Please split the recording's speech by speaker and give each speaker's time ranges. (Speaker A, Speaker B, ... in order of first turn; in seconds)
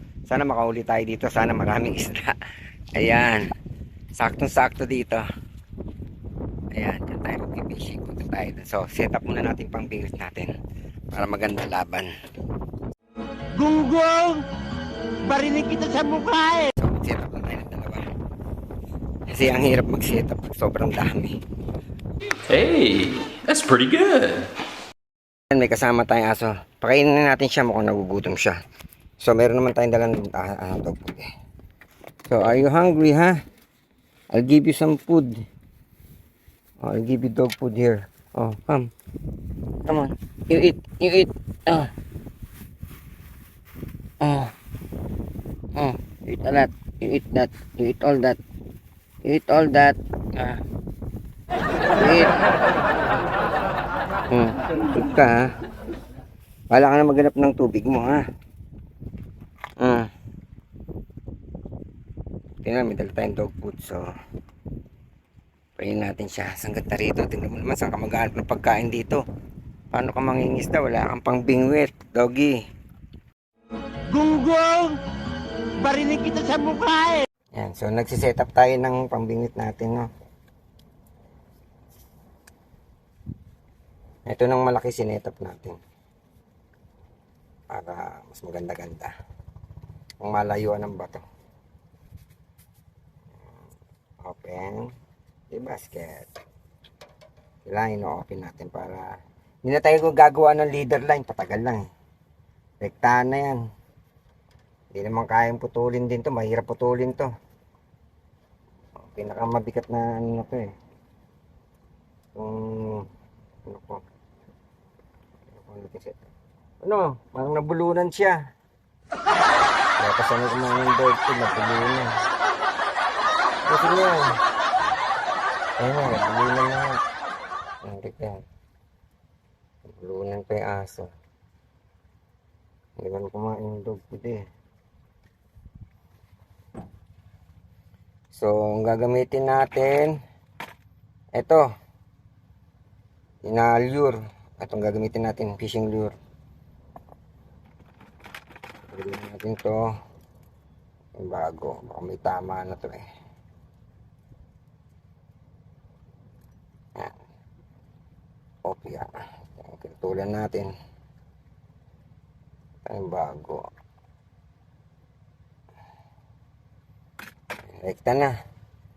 Speaker A: 0.3-2.4, 3.0-3.5, 4.2-5.2, 6.7-10.5, 11.1-12.1, 16.8-18.1, 19.3-21.4, 25.5-28.6, 29.2-31.3, 32.3-33.4, 34.3-35.4, 36.8-38.9, 39.9-41.9, 44.2-44.5, 45.8-48.4, 49.2-50.6, 52.0-52.4, 54.3-55.5, 56.7-58.2, 59.8-60.1, 62.6-64.0, 65.8-69.2, 69.9-72.6, 77.5-80.1, 84.3-85.8, 87.7-89.1, 90.2-91.2, 94.2-94.9, 95.5-96.3, 97.7-99.1, 99.6-101.8, 102.8-103.6, 104.9-107.3, 109.0-110.7, 112.4-113.1, 113.7-114.0, 115.5-116.2, 116.8-118.4, 120.0-122.2, 123.7-124.4, 125.8-127.0, 127.8-128.4, 129.9-131.1, 133.0-134.4, 138.3-140.2, 141.3-141.7, 143.5-146.2, 148.9-149.8, 151.2-153.0, 158.7-160.7, 162.8-163.7, 167.8-168.3
Speaker B: 13.5-14.4, 15.2-16.7, 74.1-75.0, 75.8-77.3
Speaker C: 22.5-24.5